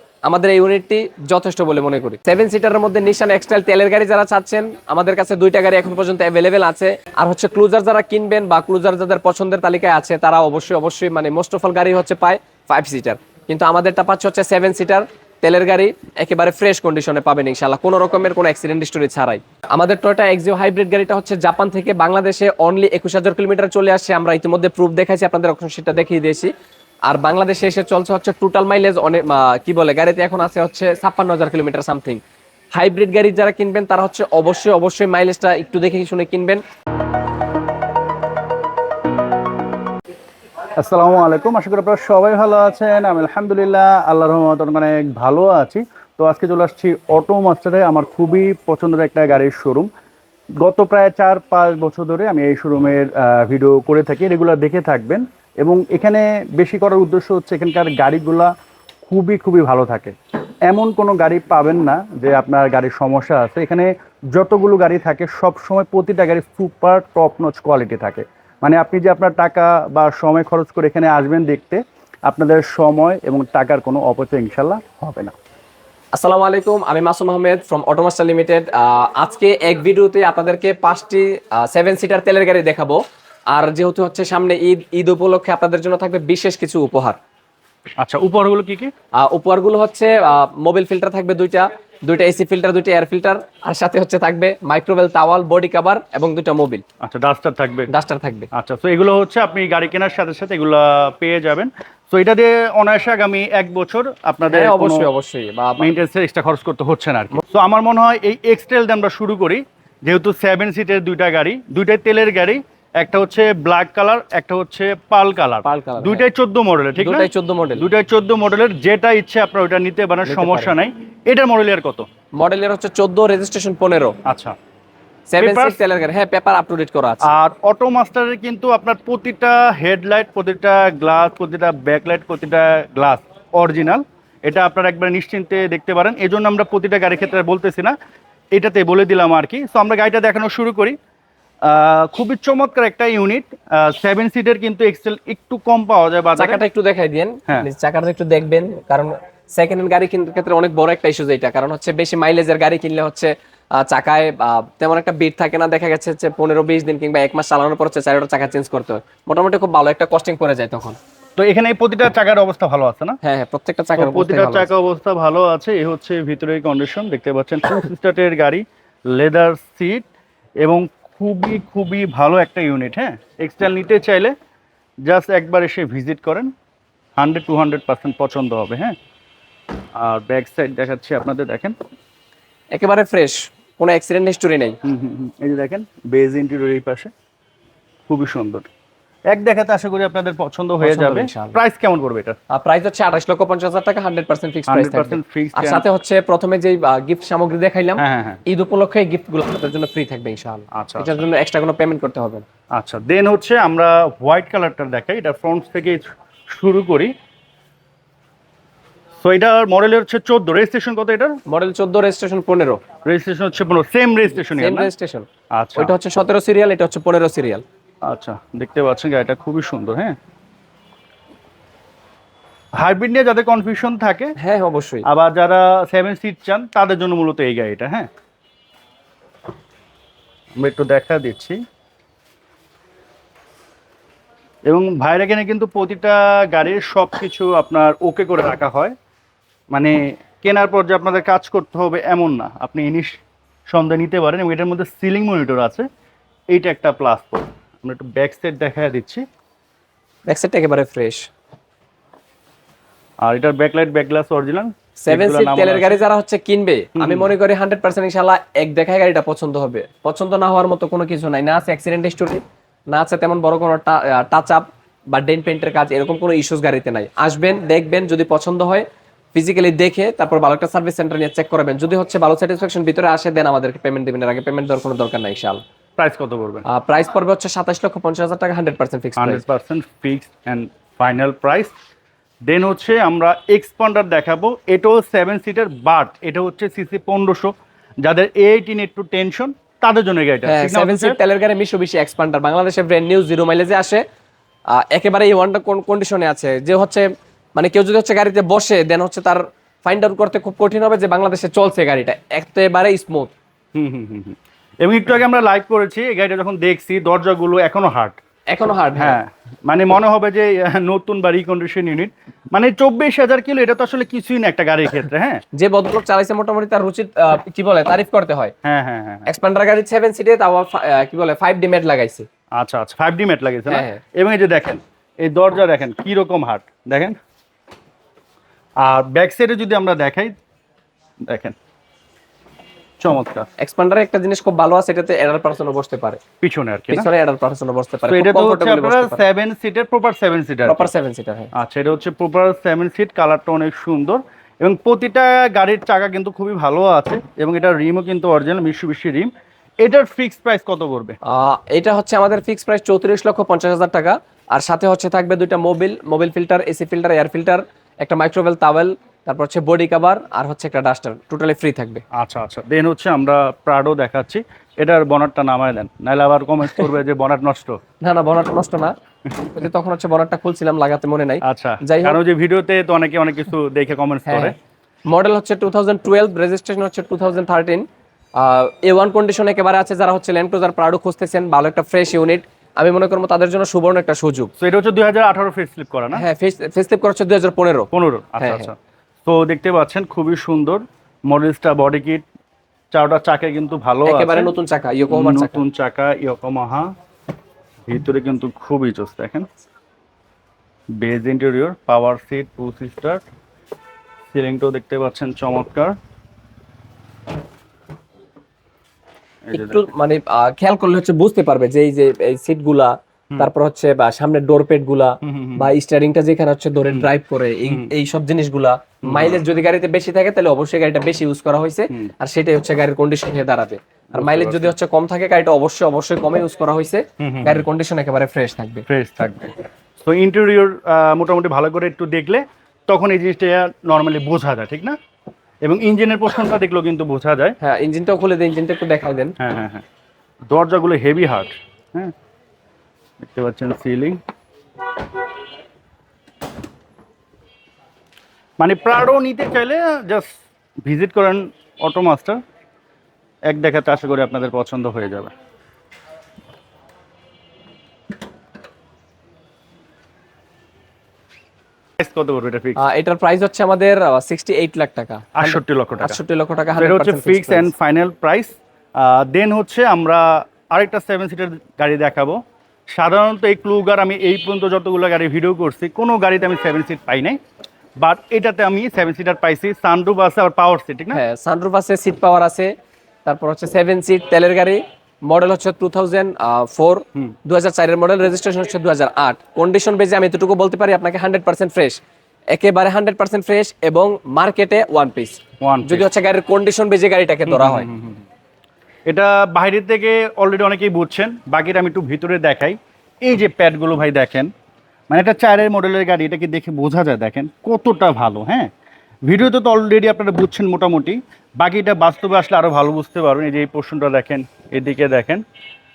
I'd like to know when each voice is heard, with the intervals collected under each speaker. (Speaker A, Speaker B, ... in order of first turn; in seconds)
Speaker A: 0.3-26.5, 27.1-32.2, 32.7-36.6, 76.2-87.2, 89.2-96.8, 97.9-98.5, 104.5-105.9, 115.7-116.3, 117.0-117.9, 120.3-120.7, 122.4-124.2, 125.3-127.3, 146.4-161.0, 163.2-164.7, 182.7-184.8, 190.8-191.6, 192.5-202.4, 211.5-212.8, 214.4-217.6, 224.4-225.1, 250.3-251.3, 255.0-275.6, 276.7-279.4, 290.4-294.0, 294.7-303.3, 308.5-309.2, 315.6-318.6, 319.3-322.3, 323.7-324.0, 333.6-336.2, 336.9-339.2, 340.7-341.5, 351.3-362.0, 368.0-372.2, 374.3-374.6, 375.1-384.5, 386.1-388.7, 394.1-395.6, 409.5-428.9, 437.6-439.4, 462.8-467.7, 481.1-482.7, 483.2-497.9
Speaker B: 40.8-49.9, 50.6-58.5, 59.1-60.1, 60.7-75.3, 88.0-88.9, 97.0-97.9, 98.5-105.1, 105.8-122.1, 124.3-124.6, 125.4-125.8, 127.2-137.9, 138.6-141.0, 141.6-146.6, 161.4-163.2, 164.0-170.1, 170.6-174.3, 175.1-176.5, 177.2-178.9, 180.0-181.8, 184.8-187.1, 188.1-188.7, 189.3-192.4, 194.7-195.9, 198.0-198.4, 200.8-201.2, 202.8-207.1, 209.2-211.4, 213.1-214.9, 215.5-216.0, 218.1-220.2, 222.8-224.3, 225.1-228.1, 230.6-231.6, 234.7-238.9, 239.7-245.9, 246.5-249.2, 253.2-256.0, 257.0-257.3, 276.0-276.7, 279.2-281.7, 282.5-287.5, 288.0-291.2, 303.8-308.2, 309.0-315.4, 318.6-319.3, 322.6-327.2, 328.8-330.4, 331.3-331.6, 333.0-333.5, 336.4-337.1, 338.1-340.9, 341.6-349.3, 349.8-351.2, 362.1-367.8, 371.4-374.6, 384.6-386.2, 387.9-388.8, 389.3-392.2, 392.9-394.5, 395.1-396.9, 397.9-399.5, 401.0-403.2, 404.3-406.0, 409.5-409.9, 415.2-415.7, 417.7-417.9, 419.0-419.4, 424.1-424.8, 427.2-427.6, 428.9-435.0, 435.6-437.6, 439.4-439.9, 440.5-442.1, 443.2-444.2, 448.6-452.4, 453.5-455.3, 462.0-462.8, 465.4-466.2, 466.8-472.4, 472.9-477.4, 478.0-481.2, 495.6-496.1, 497.5-498.2, 499.1-504.5, 505.1-508.7, 509.3-515.4